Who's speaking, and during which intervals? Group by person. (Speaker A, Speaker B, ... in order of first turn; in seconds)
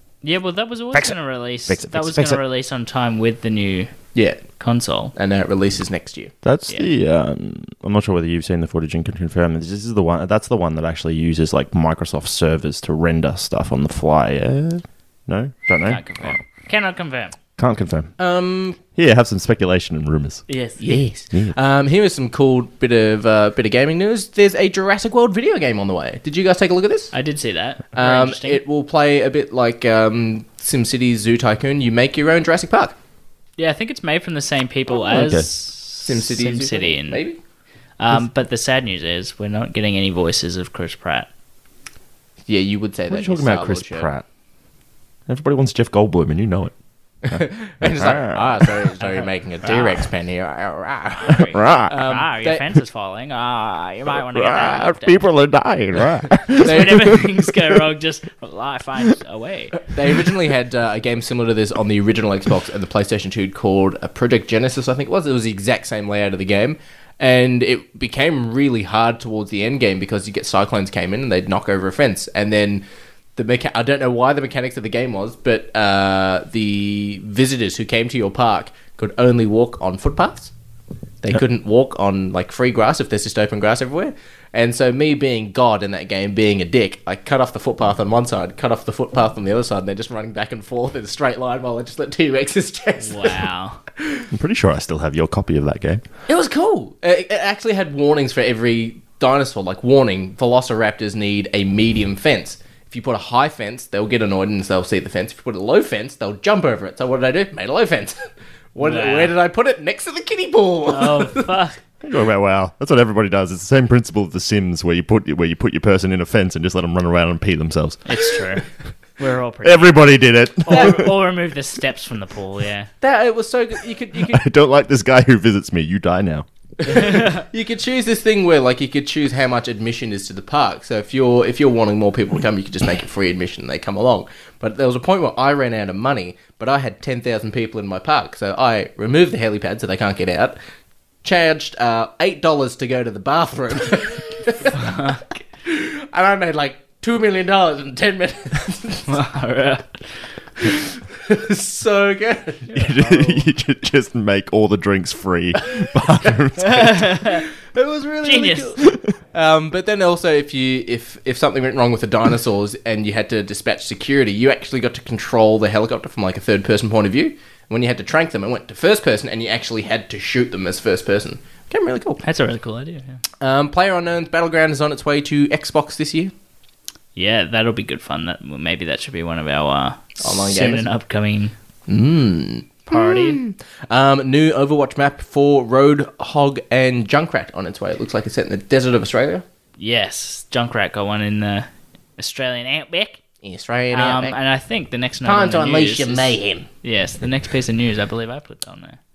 Speaker A: 0.2-3.9, 4.6-5.1, 15.9-17.3, 20.5-20.8, 27.1-28.6, 33.6-37.2, 38.0-41.3, 49.0-50.0, 51.2-55.2, 56.5-59.8, 93.0-93.8, 108.8-109.3, 110.9-111.8, 118.1-118.7, 119.2-120.0, 120.7-122.9, 126.9-127.4, 144.8-145.2, 149.1-149.9, 152.7-153.4, 156.7-157.5, 158.2-158.8, 172.2-173.2, 177.2-181.5, 182.9-183.4, 189.8-193.2, 193.9-199.0
Speaker B: 1.7-2.4, 6.4-16.4, 17.6-18.1, 18.9-20.4, 35.1-35.5, 43.1-44.2, 45.3-46.7, 47.3-48.7, 51.4-52.0, 54.3-57.8, 94.3-96.0, 112.0-118.2, 119.6-121.1, 124.2-126.5, 152.7-157.2
Speaker C: 4.2-4.4, 5.2-6.3, 18.2-18.8, 20.8-27.1, 27.9-32.9, 36.0-37.4, 42.5-44.1, 47.2-52.7, 56.6-57.2, 59.9-72.8, 73.4-80.5, 81.2-93.4, 94.0-94.3, 96.3-108.2, 108.8-111.5, 120.7-121.0, 123.0-124.4, 126.8-140.6, 141.2-145.0, 145.7-149.1, 150.7-152.7, 157.7-172.2, 173.4-176.3, 180.2-180.9, 181.9-189.4, 193.4-194.4, 195.2-196.7